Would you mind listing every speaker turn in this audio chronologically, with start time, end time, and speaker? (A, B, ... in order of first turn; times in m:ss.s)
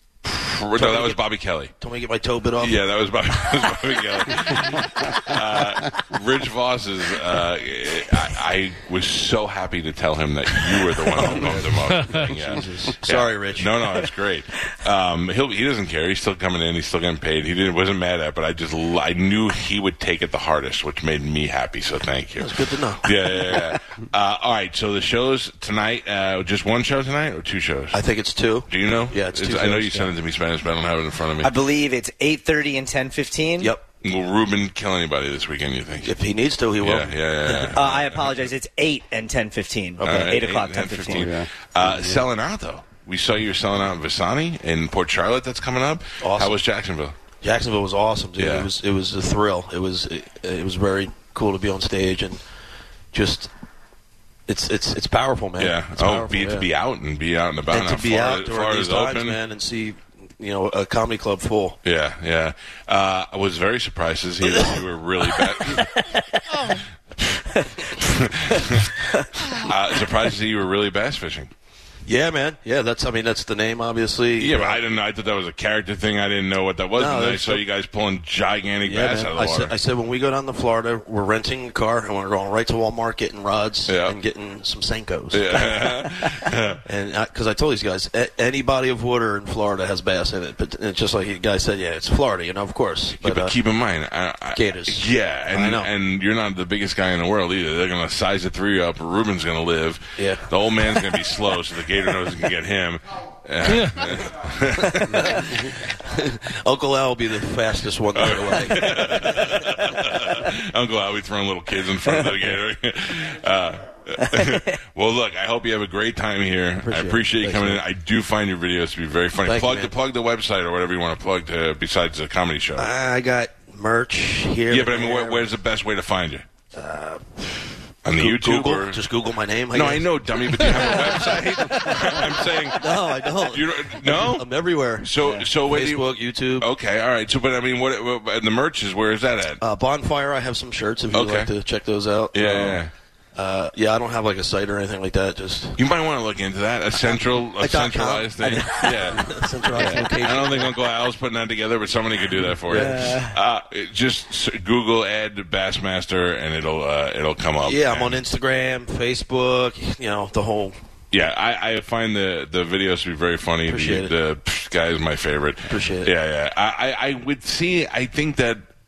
0:00.2-0:01.7 A
0:00.8-0:01.2 B
0:01.8-0:02.8 B
0:02.6-0:28.0 A
0:11.1-0:13.8 B
0:22.4-0:23.1 B
0:27.9-0:30.1 B
0:28.7-0:31.6 A
0:31.4-0:33.7 C
0:34.0-0:36.1 A
0:36.0-0:37.8 B
0:36.8-0:38.5 A
0:37.7-0:41.4 C
0:40.0-0:40.3 B
0:40.0-0:47.2 A
0:46.2-0:46.6 B
0:47.4-0:52.4 B
0:48.4-0:48.7 A
0:53.1-0:53.5 B
0:54.5-0:56.7 B
0:55.6-0:59.4 A
0:57.7-1:01.8 B
1:01.8-1:11.5 A
1:12.1-1:14.8 B
1:14.4-1:19.7 A
1:16.9-1:17.6 B
1:18.8-1:26.3 B
1:23.9-1:24.2 A
1:25.3-1:26.8 A
1:26.9-1:33.6 B
1:33.2-1:45.6 A
1:34.6-1:35.9 B
1:40.2-1:40.4 B
1:45.0-1:49.5 B
1:48.1-2:02.9 A
1:56.8-1:57.8 B
1:59.4-1:59.9 B
2:02.8-2:05.5 B
2:04.7-2:06.4 A
2:06.7-2:07.6 B
2:08.0-2:09.0 A
2:08.2-2:11.3 B
2:09.7-2:19.6 A
2:12.8-2:16.7 B
2:19.6-2:22.8 B
2:21.1-2:21.5 A
2:22.3-2:22.9 A
2:23.4-2:25.8 B
2:25.8-2:38.2 A
2:27.0-2:30.8 B
2:32.6-2:33.4 B
2:37.6-2:40.8 B
2:41.1-2:48.6 A
2:43.7-2:44.1 B
2:45.7-2:46.1 B